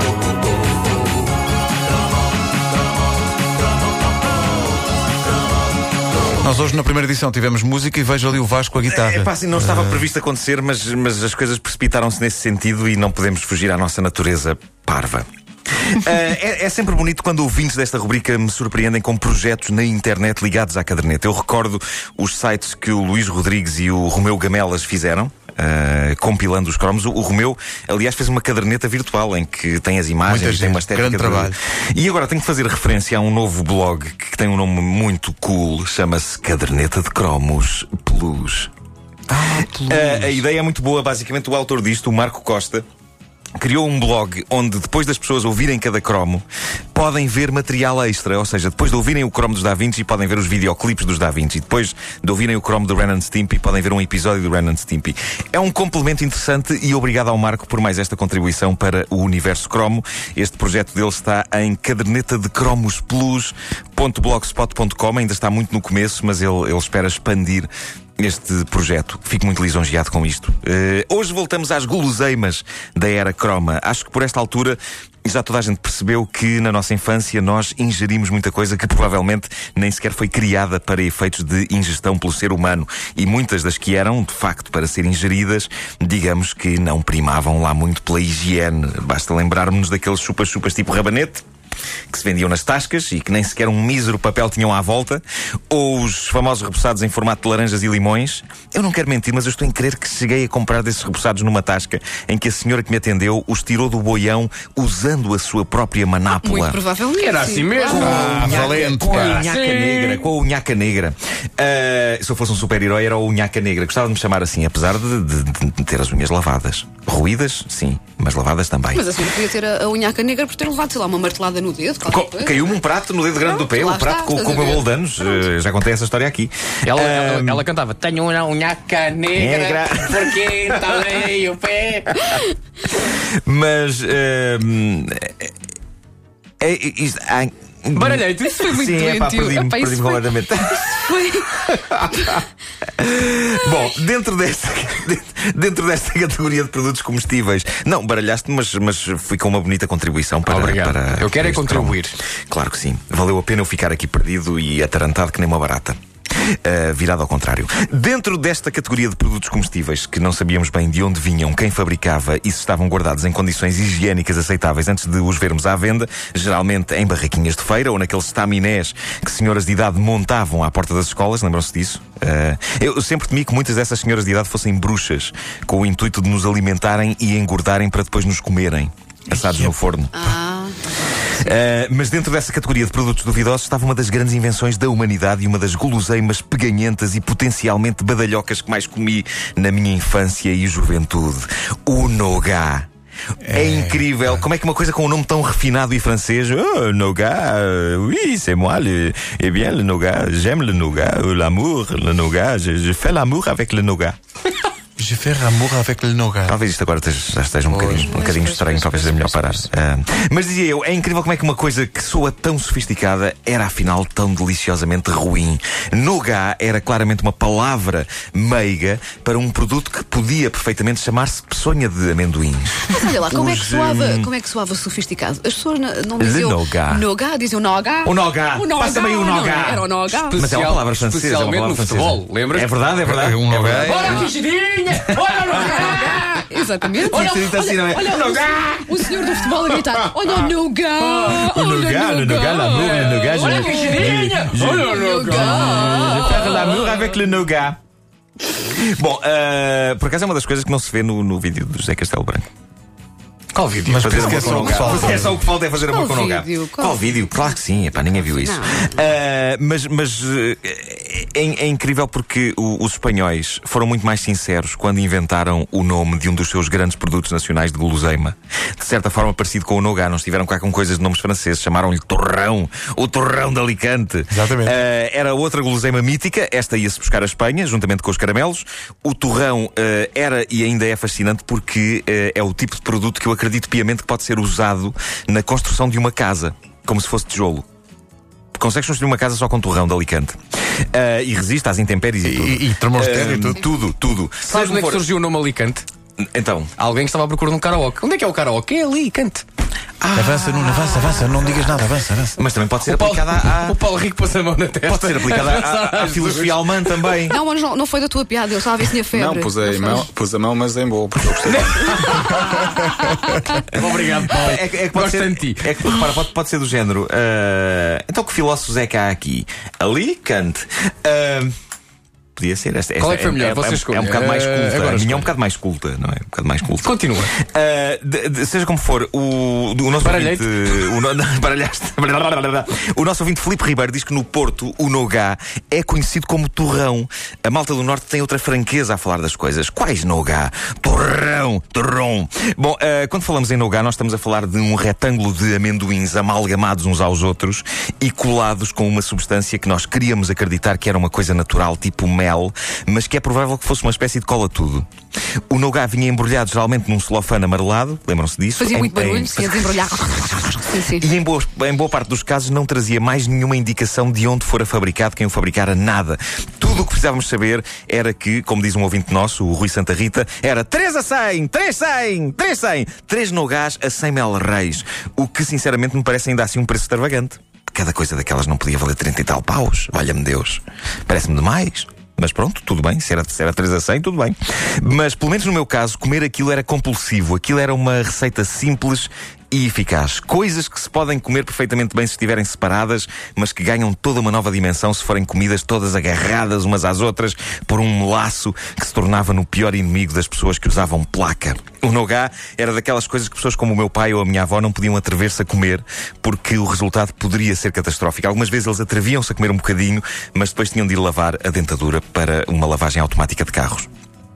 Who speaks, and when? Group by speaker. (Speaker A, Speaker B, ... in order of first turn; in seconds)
Speaker A: 6.4-10.0, 30.2-31.6, 39.3-40.4, 107.9-109.4, 179.4-179.7, 193.4-194.2, 205.0-206.6, 207.7-208.3, 233.1-234.2, 253.8-255.4, 274.3-274.8, 292.2-293.7, 300.1-302.4
Speaker B: 8.9-38.7, 39.9-42.8, 43.6-91.4, 92.1-106.8, 107.9-119.3, 122.0-127.7, 129.3-131.0, 133.0-135.5, 136.6-180.3, 181.3-192.9, 193.4-204.2, 206.4-224.3, 226.2-227.1, 228.0-234.2, 235.4-235.9, 237.0-239.3, 241.2-247.8, 248.6-252.4, 254.0-287.6, 288.6-295.0, 296.2-296.7, 302.4-303.8, 304.8-307.4, 313.7-321.5, 322.4-354.9, 355.5-413.9
Speaker C: 106.4-108.6, 118.9-122.8, 123.4-125.4, 138.5-141.5, 180.2-181.3, 208.0-209.6, 222.9-230.4, 235.5-246.4, 254.4-255.2, 255.7-257.6, 258.2-259.0, 300.8-301.4, 307.3-310.1, 358.6-361.1
Speaker D: 107.2-110.3, 126.8-132.2, 137.9-138.7, 150.4-152.1, 230.1-232.8, 233.8-238.2, 239.1-239.6, 241.0-241.5, 242.6-247.2, 253.5-255.2, 294.4-295.9, 296.8-299.4, 302.9-307.2, 311.4-316.2, 323.0-325.3, 326.8-327.3, 330.0-330.8
Speaker E: 309.1-312.6